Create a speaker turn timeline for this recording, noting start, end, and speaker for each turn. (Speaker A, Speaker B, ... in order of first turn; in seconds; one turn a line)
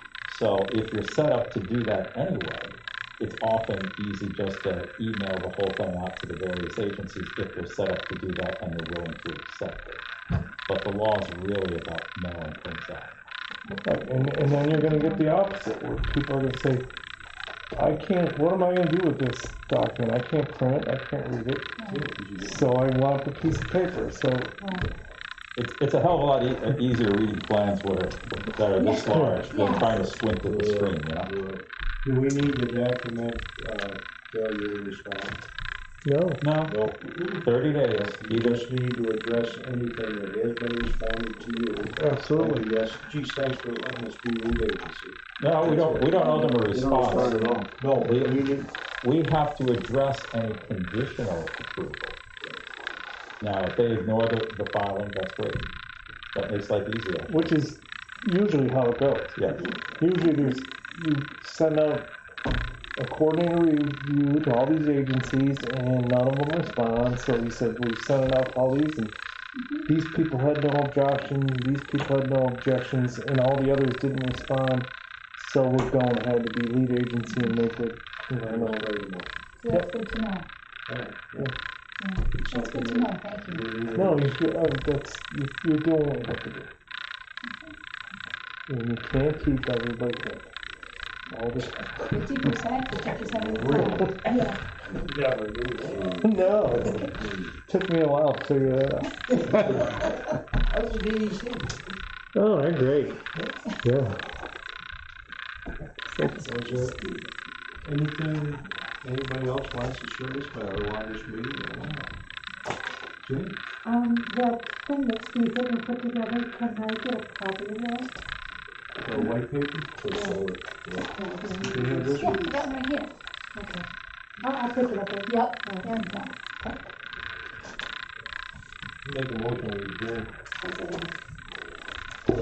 Speaker A: 0.2-10.0
Speaker A: 10.6-13.1
Speaker B: 13.7-13.9
Speaker C: 13.8-16.9
Speaker B: 14.6-15.2
Speaker C: 17.7-21.7
Speaker B: 21.8-22.0
Speaker D: 21.9-22.7
Speaker C: 22.4-24.6
Speaker B: 24.6-24.9
Speaker A: 25.6-31.3
Speaker B: 28.8-29.9
Speaker C: 29.1-29.4
Speaker D: 29.5-35.4
Speaker C: 36.0-36.4
Speaker A: 36.4-38.6
Speaker D: 36.6-48.7
Speaker C: 42.0-42.7
Speaker A: 45.4-48.4
Speaker B: 46.2-46.5
Speaker A: 49.0-52.2
Speaker A: 53.4-55.7
Speaker A: 56.3-57.5
Speaker C: 57.3-62.1
Speaker A: 59.4-59.8
Speaker C: 63.0-69.1
Speaker B: 69.5-69.8
Speaker C: 69.8-78.9
Speaker D: 78.4-79.3
Speaker B: 79.6-80.5
Speaker D: 80.9-81.5
Speaker B: 82.0-83.6
Speaker D: 82.4-84.3
Speaker C: 83.9-86.7
Speaker B: 87.4-87.7
Speaker C: 88.7-90.5
Speaker C: 91.3-92.1
Speaker B: 92.0-94.6
Speaker D: 93.3-94.3
Speaker D: 94.8-97.5
Speaker C: 96.2-97.1
Speaker C: 97.7-99.7
Speaker D: 99.4-101.8
Speaker C: 102.3-104.2
Speaker C: 106.1-106.5
Speaker D: 106.4-107.2
Speaker D: 107.8-112.1
Speaker D: 113.2-113.5
Speaker E: 113.8-118.1
Speaker D: 119.0-122.5
Speaker E: 121.1-122.1
Speaker B: 122.1-123.1
Speaker E: 123.5-123.8
Speaker E: 124.4-125.9
Speaker B: 125.3-126.4
Speaker D: 129.0-130.3
Speaker E: 130.6-131.1